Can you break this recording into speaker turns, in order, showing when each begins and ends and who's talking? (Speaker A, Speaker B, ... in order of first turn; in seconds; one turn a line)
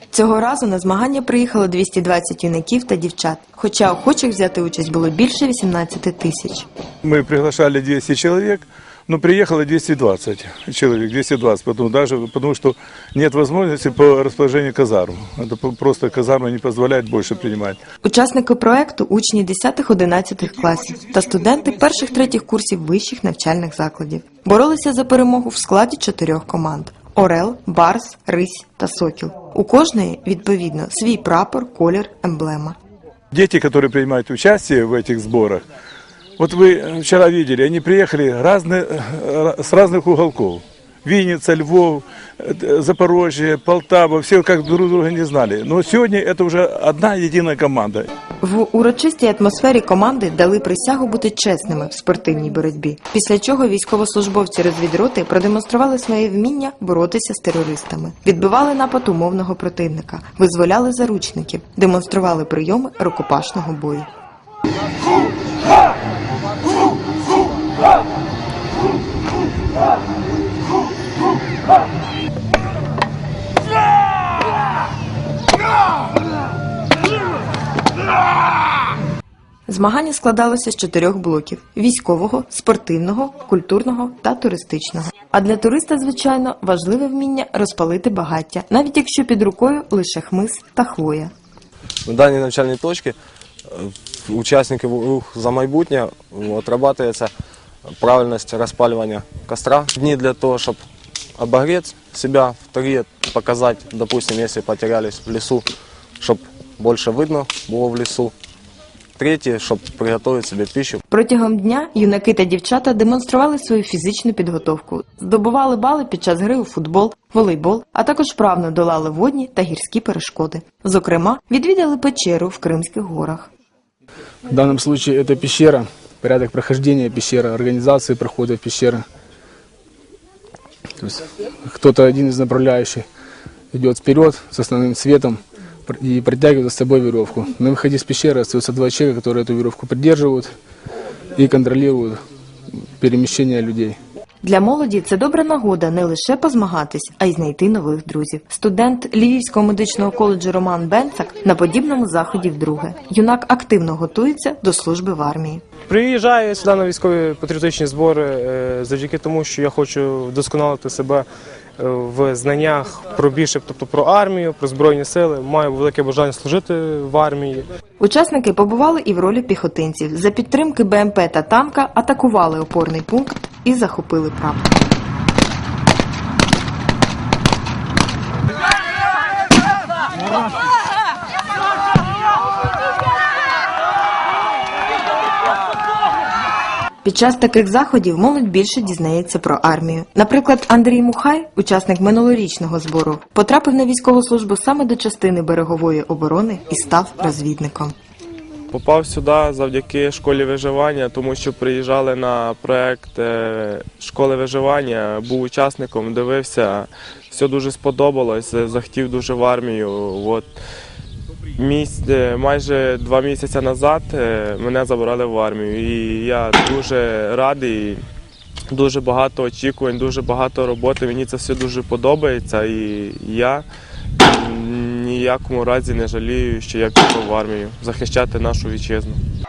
Speaker A: 0.1-6.7
Speaker B: 7.0-17.8
Speaker A: 18.0-32.8
Speaker B: 33.3-35.6
Speaker B: 36.4-48.1
Speaker A: 48.4-64.1
Speaker A: 79.7-91.3
Speaker C: 92.0-97.3
Speaker C: 97.8-100.8
Speaker C: 101.3-105.7
Speaker C: 106.2-108.3
Speaker C: 109.2-111.0
Speaker A: 111.1-123.5
Speaker D: 124.5-129.0
Speaker D: 131.0-133.0
Speaker D: 133.7-140.5
Speaker D: 141.3-142.2
Speaker D: 143.0-144.0
Speaker A: 144.4-155.6
Speaker E: 155.9-161.3
Speaker E: 161.8-167.7
Speaker A: 168.0-174.8
Speaker A: 187.0-197.9
Speaker F: 198.7-210.5
Speaker F: 211.6-218.0
Speaker F: 218.7-223.7
Speaker F: 224.2-229.2